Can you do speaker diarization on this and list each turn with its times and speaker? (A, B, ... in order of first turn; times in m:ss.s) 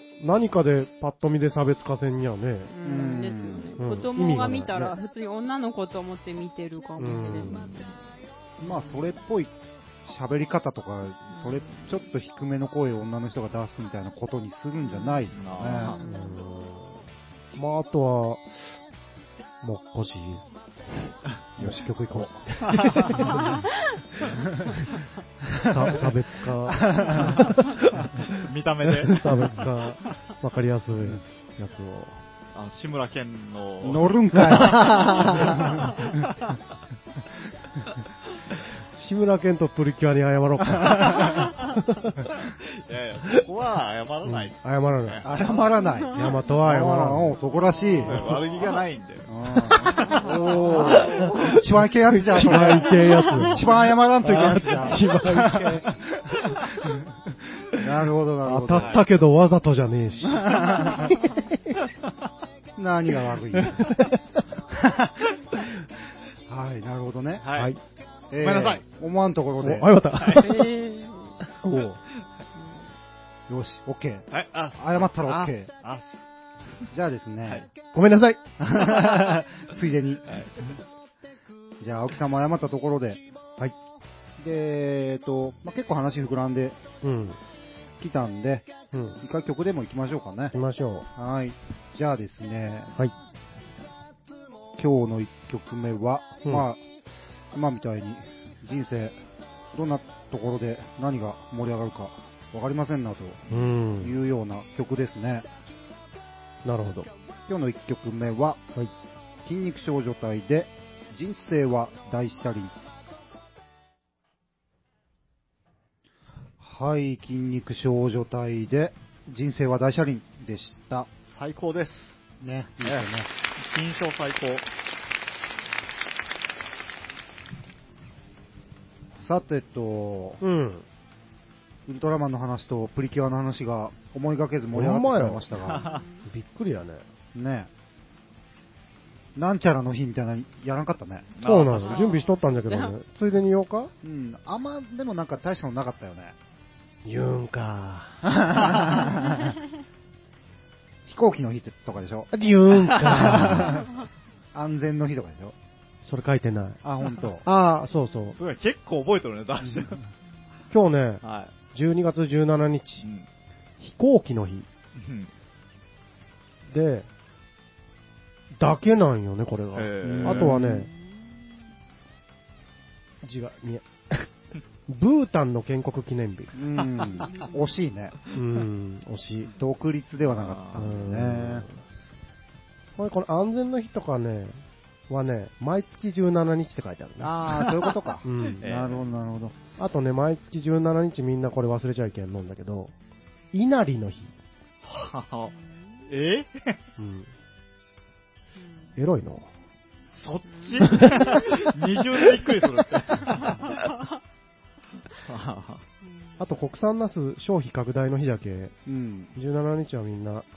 0:00.2-0:02.7 A
0:02.7-0:08.0 B
0:02.8-0:03.8 C
0:03.8-0:04.9 A
0:07.0-0:07.7 A
0:08.6-0:09.0 B
0:08.6-0:09.5 C
0:10.0-0:16.0 C
0:11.3-0:12.0 B
0:14.8-0:16.5 B
0:15.3-0:16.0 D
0:16.0-0:17.0 A
0:17.5-0:18.6 A
0:19.6-0:23.6 A
0:21.6-0:22.4 C
0:22.6-0:23.3 D
0:23.2-0:23.7 B
0:25.5-0:26.0 C
0:25.6-0:32.2 A
0:26.7-0:27.4 C
0:28.4-0:29.7 D
0:32.5-0:36.2 D
0:33.8-0:36.3 C
0:38.9-0:42.3 A
0:42.4-0:45.7 D
0:44.2-0:45.2 A
0:45.2-0:48.3 C
0:45.7-0:46.4 B
0:46.1-0:47.3 A
0:47.7-0:48.6 B
0:48.0-0:51.6 D
0:48.1-0:48.4 A
0:49.3-0:57.0 C
0:49.9-0:51.6 B
0:50.9-0:51.4 A
0:52.1-0:55.9 A
0:52.8-0:53.8 B
0:57.7-0:59.0 C
0:58.4-1:01.8 A
0:58.7-0:59.0 D
1:00.2-1:01.1 C
1:02.8-1:03.9 C
1:03.6-1:04.2 A
1:04.7-1:05.3 C
1:06.5-1:07.4 C
1:07.4-1:07.8 D
1:07.5-1:07.8 A
1:08.3-1:09.9 C
1:08.3-1:08.8 D
1:09.6-1:10.7 A
1:10.1-1:10.6 D
1:10.4-1:11.4 B
1:11.4-1:12.0 A
1:12.5-1:12.9 B
1:13.5-1:15.7 C
1:14.3-1:16.2 D
1:16.9-1:17.7 C
1:17.9-1:18.4 A
1:18.6-1:20.3 C
1:20.3-1:20.8 D
1:21.8-1:23.2 C
1:24.4-1:26.8 C
1:27.0-1:27.4 A
1:28.0-1:28.7 C
1:28.9-1:29.2 A
1:29.2-1:30.5 C
1:30.5-1:31.1 A
1:31.1-1:32.9 C
1:34.8-1:36.8 C
1:37.5-1:39.2 C
1:39.7-1:45.4 C
1:43.5-1:44.2 A
1:46.6-1:47.1 A
1:47.5-1:48.6 C
1:49.4-1:52.7 C
1:56.6-2:01.1 C
2:01.3-2:02.2 D
2:02.4-2:03.3 C
2:02.8-2:04.7 D
2:09.1-2:10.4 C
2:10.4-2:10.8 A
2:11.9-2:15.8 C
2:14.7-2:15.4 A
2:15.6-2:16.0 D
2:15.6-2:16.3 B
2:16.3-2:17.0 A
2:17.3-2:17.7 C
2:19.4-2:21.3 C
2:21.3-2:22.1 D
2:21.4-2:23.9 A
2:21.7-2:22.9 B
2:24.0-2:26.3 C
2:27.0-2:28.3 A
2:28.2-2:29.5 C
2:31.0-2:32.3 C
2:32.3-2:33.8 A
2:33.0-2:33.4 D
2:33.0-2:33.9 C
2:34.5-2:35.5 C
2:36.0-2:36.8 A
2:36.8-2:37.4 C
2:37.4-2:38.4 A
2:38.4-2:40.0 D
2:40.7-2:43.0 A
2:41.2-2:41.5 D
2:43.0-2:43.3 D
2:43.8-2:44.7 A
2:44.9-2:45.3 D
2:46.7-2:47.1 A
2:48.6-2:50.9 A
2:49.7-2:50.5 D
2:50.0-2:50.9 C
2:50.9-2:51.4 B
2:53.2-2:54.3 A
2:54.9-2:56.5 A
2:56.5-2:58.2 C
2:57.2-2:57.8 B
2:58.3-2:59.5 A
2:59.5-3:01.6 C
3:00.2-3:01.0 D
3:00.7-3:01.7 A
3:03.0-3:07.7 A
3:07.2-3:09.6 C
3:08.2-3:08.6 A
3:08.6-3:09.1 D
3:09.8-3:12.9 A
3:13.5-3:14.3 A
3:14.8-3:15.5 D
3:15.5-3:16.1 B
3:16.1-3:16.8 D
3:17.0-3:17.3 A
3:18.6-3:19.0 B
3:19.0-3:19.5 A
3:20.1-3:23.7 D
3:20.5-3:21.7 B
3:23.2-3:24.1 B
3:25.2-3:25.8 D
3:26.0-3:26.4 B
3:26.4-3:28.7 A
3:28.8-3:29.3 C
3:29.3-3:30.4 A